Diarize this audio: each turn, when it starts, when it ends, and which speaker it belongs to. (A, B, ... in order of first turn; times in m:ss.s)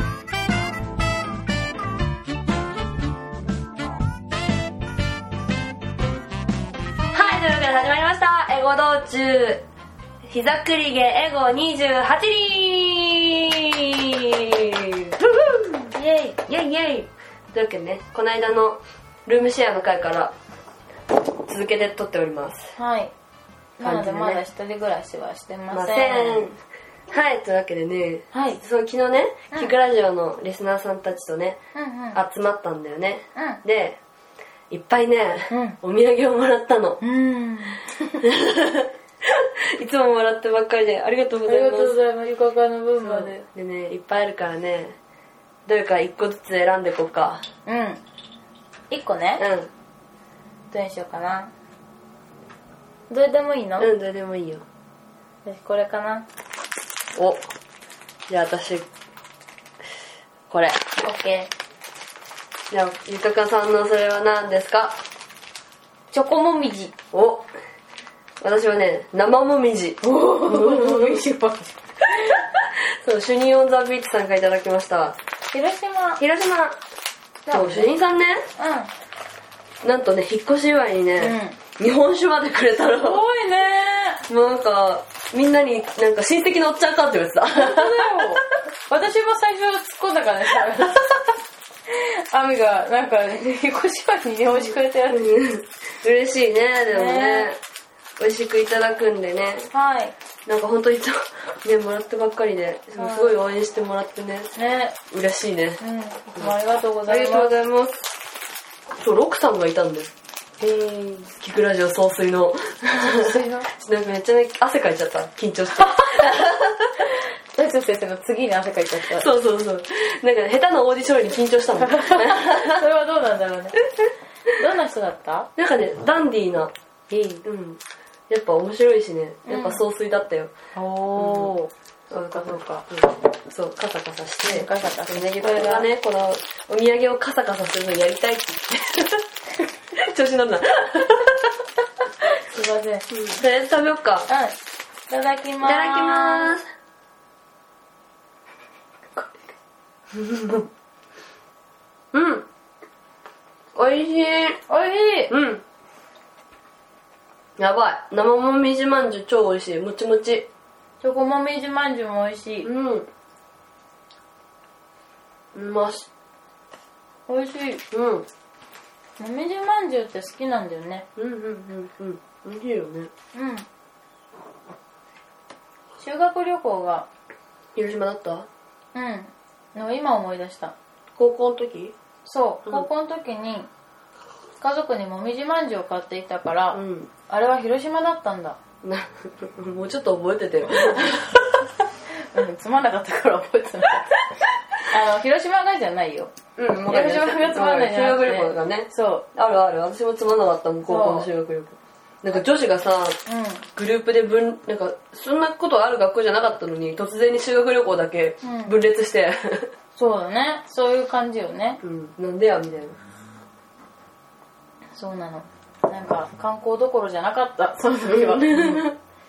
0:07.1-0:09.6 A
0:10.3-0:15.8 A
0:15.9-0:16.4 B
0:16.4-0:20.3 A
0:21.5-0:22.7 A
0:22.8-0:23.1 B
0:23.8-0:26.5 B
0:23.8-0:24.4 A
0:25.7-0:26.6 A
0:27.1-0:31.6 A
0:28.3-0:28.6 B
0:31.7-0:32.2 B
0:32.1-0:34.0 A
0:33.3-0:33.6 B
0:34.7-0:37.0 A
0:35.5-0:35.8 B
0:37.0-0:38.2 B
0:38.2-0:42.0 A
0:41.5-0:43.3 B
0:43.0-0:45.0 A
0:45.6-0:47.4 A
0:47.6-0:48.0 B
0:48.9-0:49.4 B
0:49.4-0:49.7 A
0:50.7-0:51.5 B
0:53.1-0:53.9 B
0:53.8-0:54.6 A
0:55.4-0:56.2 B
0:57.1-0:57.4 A
0:58.3-0:58.9 A
1:00.5-1:00.8 A
1:01.0-1:01.5 B
1:02.7-1:05.0 A
1:06.1-1:06.9 B
1:07.1-1:07.5 A
1:08.4-1:11.2 A
1:10.0-1:12.4 B
1:12.6-1:15.2 A
1:15.5-1:16.2 B
1:16.2-1:16.8 A
1:17.4-1:17.9 B
1:17.5-1:18.4 A
1:18.6-1:18.9 B
1:19.8-1:23.2 A
1:21.2-1:21.6 B
1:23.0-1:24.2 B
1:24.3-1:28.4 A
1:27.5-1:31.2 B
1:31.9-1:35.4 B
1:34.5-1:37.6 A
1:36.9-1:37.5 B
1:38.2-1:39.7 A
1:39.7-1:40.1 B
1:40.4-1:44.5 A
1:43.0-1:43.4 B
1:44.5-1:45.0 B
1:45.1-1:45.8 A
1:45.8-1:47.5 B
1:47.1-1:48.1 A
1:49.0-1:56.9 A
1:53.0-1:53.7 B
1:55.8-1:56.3 B
1:57.0-1:59.3 B
1:59.1-2:02.8 A
2:01.8-2:03.8 B
2:04.5-2:05.5 B
2:05.6-2:06.7 A
2:07.1-2:07.4 B
2:07.4-2:10.5 A
2:09.4-2:09.8 B
2:10.7-2:12.8 B
2:11.2-2:11.5 A
2:12.1-2:19.1 A
2:14.4-2:15.9 B
2:20.0-2:21.5 A
2:22.4-2:23.2 B
2:23.1-2:24.3 A
2:24.3-2:24.5 B
2:25.1-2:26.6 B
2:25.6-2:26.6 A
2:30.1-2:30.7 A
2:32.1-2:32.4 A
2:33.7-2:34.6 A
2:34.7-2:35.3 B
2:35.3-2:35.6 A
2:37.6-2:40.5 A
2:41.0-2:42.7 B
2:42.6-2:43.1 A
2:45.5-2:46.1 A
2:47.3-2:47.8 B
2:47.9-2:48.2 A
2:49.2-2:51.0 B
2:51.2-2:53.1 A
2:53.3-2:53.6 B
2:56.0-2:57.1 B
2:57.8-2:58.5 A
2:58.9-3:00.7 B
3:01.2-3:01.9 A
3:02.2-3:03.7 B
3:04.6-3:08.6 B
3:06.7-3:07.1 A
3:08.8-3:11.2 A
3:12.1-3:14.2 B
3:14.7-3:19.2 B
3:16.6-3:23.2 A
3:20.8-3:21.3 B
3:23.2-3:23.6 B
3:23.7-3:29.7 A
3:28.4-3:28.7 B
3:29.9-3:31.8 B
3:31.8-3:33.0 A
3:34.9-3:38.8 B
3:38.0-3:38.9 A